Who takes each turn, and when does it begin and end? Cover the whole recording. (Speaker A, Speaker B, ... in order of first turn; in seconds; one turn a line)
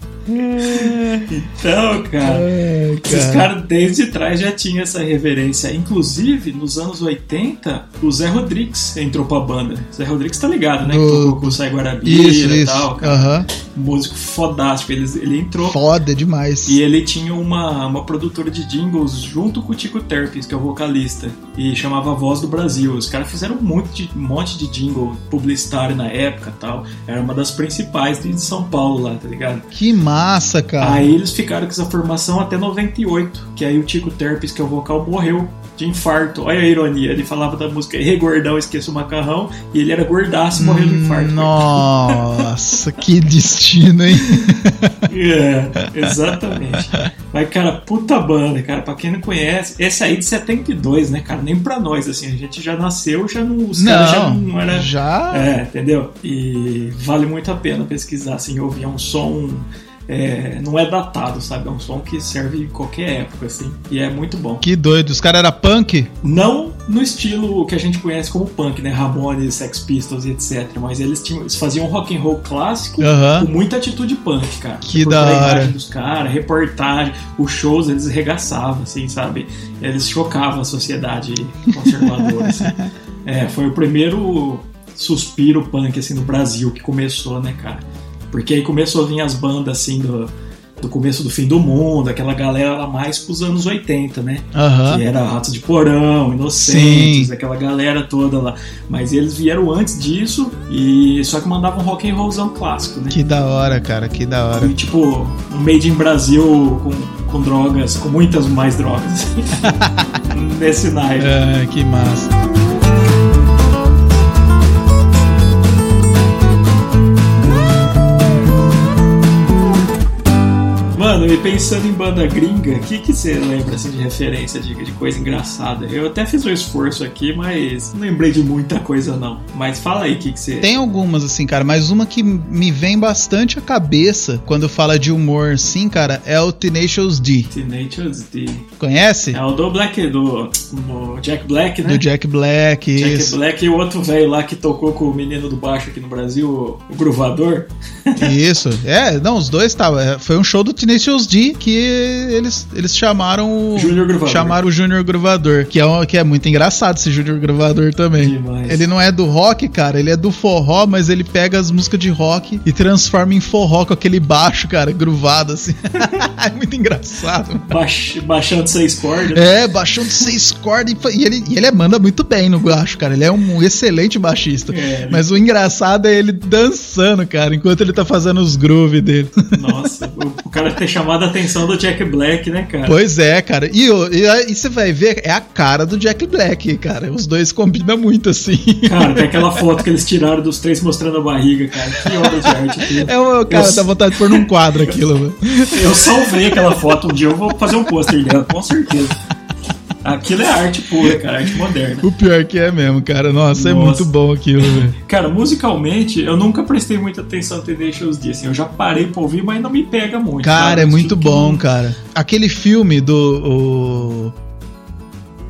Speaker A: 0.3-1.3
Speaker B: 0.5-2.5
Speaker A: 2.2-3.5
Speaker B: 3.0-15.8
Speaker A: 10.8-13.5
Speaker A: 15.6-16.8
Speaker B: 16.6-29.7
Speaker A: 29.7-31.1
Speaker B: 30.8-42.2
Speaker A: 40.5-45.0
Speaker B: 45.1-64.6
Speaker A: 53.7-55.5
Speaker A: 64.6-66.1
Speaker B: 66.2-103.2
Speaker A: 73.0-73.5
Speaker A: 74.8-75.7
Speaker A: 81.8-82.9
Speaker A: 94.5-95.0
Speaker A: 96.5-97.3
Speaker A: 103.1-104.7
Speaker B: 104.5-109.7
Speaker A: 109.6-110.2
Speaker B: 110.3-111.3
Speaker A: 111.2-112.3
Speaker B: 120.9-130.7
Speaker A: 130.6-137.5
Speaker B: 137.5-138.7
Speaker A: 138.8-139.4
Speaker B: 139.3-142.0
Speaker A: 141.8-143.3
Speaker B: 142.9-148.3
Speaker A: 148.2-167.7
Speaker B: 153.7-154.6
Speaker B: 158.2-158.8
Speaker B: 167.7-169.5
Speaker A: 169.3-179.4
Speaker B: 174.7-175.3
Speaker B: 179.5-183.0
Speaker A: 182.8-189.6
Speaker B: 188.8-194.4
Speaker A: 192.0-195.9
Speaker B: 195.7-199.2
Speaker B: 200.0-202.1
Speaker A: 202.0-204.9
Speaker B: 203.5-204.1
Speaker B: 204.6-211.6
Speaker A: 210.4-214.3